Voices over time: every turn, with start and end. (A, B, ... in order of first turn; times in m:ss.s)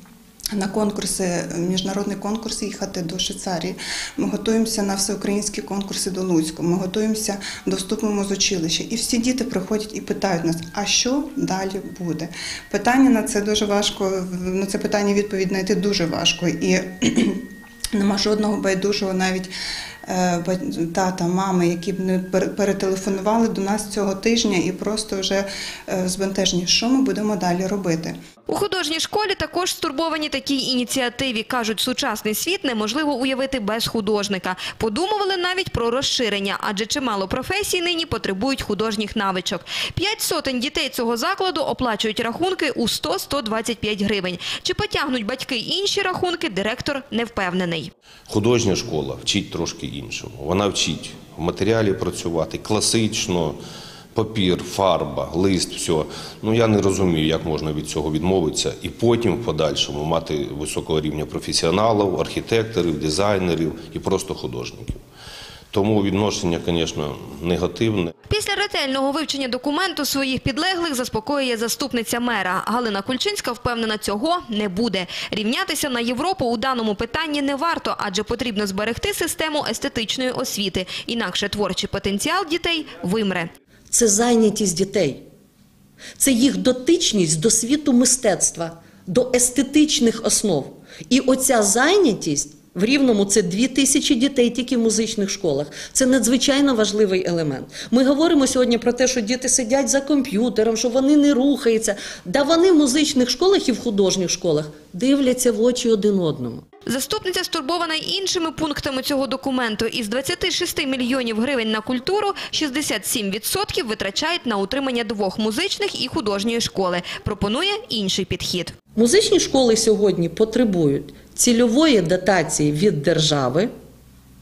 0:00.5-0:17.4 A
0:18.0-0:19.5 A
0:20.1-0:28.2 A
0:28.5-0:47.9 B
0:48.3-0:53.6 C
0:54.1-1:05.0 C
1:05.7-1:08.1 C
1:08.3-1:23.5 B
1:23.9-1:25.2 D
1:26.2-1:46.6 D
1:46.9-1:58.7 B
1:59.0-2:03.7 D